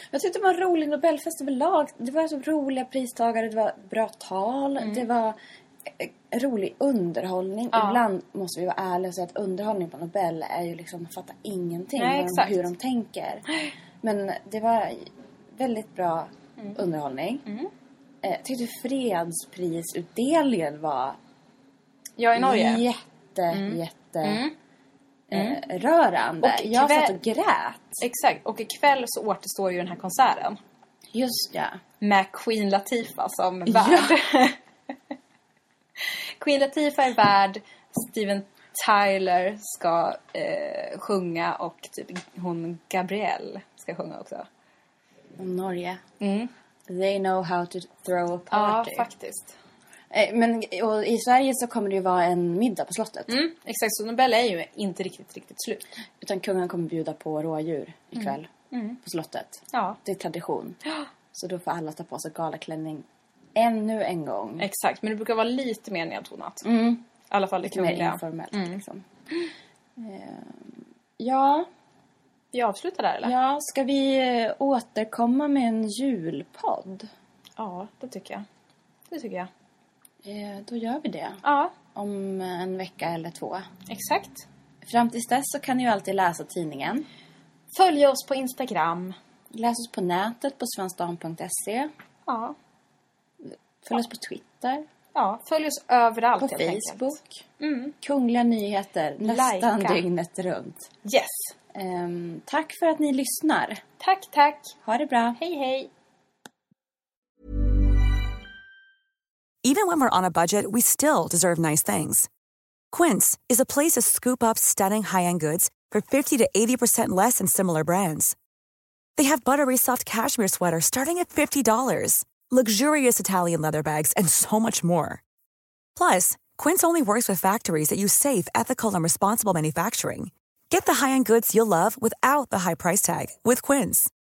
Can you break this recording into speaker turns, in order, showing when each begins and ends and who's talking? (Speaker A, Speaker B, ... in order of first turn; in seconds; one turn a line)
Speaker A: 0.1-13.5
Speaker B: 7.7-8.0
Speaker B: 12.0-12.6
Speaker A: 14.0-17.4
Speaker A: 18.2-21.2
Speaker B: 22.2-22.8
Speaker A: 22.4-24.4
Speaker B: 23.5-24.5
Speaker A: 25.3-28.0
Speaker B: 25.3-25.6
Speaker B: 26.4-27.2
Speaker B: 28.0-30.6
Speaker A: 31.1-31.8
Speaker B: 32.0-34.6
Speaker A: 33.7-34.1
Speaker B: 36.0-44.5
Speaker A: 45.4-46.0
Speaker B: 46.2-46.5
Speaker A: 46.9-49.0
Speaker B: 48.5-49.6
Speaker A: 50.1-53.4
Speaker B: 53.3-55.9
Speaker A: 56.2-58.5
Speaker B: 58.2-59.0
Speaker A: 59.0-60.8
Speaker B: 59.7-60.0
Speaker A: 61.3-64.6
Speaker B: 64.6-66.7
Speaker A: 66.6-67.0
Speaker B: 67.3-68.8
Speaker A: 67.6-69.0
Speaker A: 70.0-71.7
Speaker B: 72.5-73.3
Speaker A: 73.2-77.1
Speaker B: 77.6-78.5
Speaker B: 79.1-79.5
Speaker A: 80.2-81.4
Speaker B: 81.4-81.7
Speaker A: 81.9-83.6
Speaker B: 83.9-84.5
Speaker A: 84.8-87.0
Speaker B: 87.7-89.2
Speaker A: 89.5-91.9
Speaker B: 92.2-92.5
Speaker A: 93.5-94.8
Speaker B: 95.1-97.9
Speaker A: 96.4-97.4
Speaker A: 98.0-100.9
Speaker B: 99.2-100.0
Speaker B: 101.0-101.5
Speaker A: 101.7-103.8
Speaker B: 104.0-104.7
Speaker A: 104.8-105.4
Speaker B: 105.4-105.9
Speaker C: 109.6-112.3
Speaker C: 112.9-118.3
Speaker C: 119.2-125.2
Speaker C: 126.0-134.1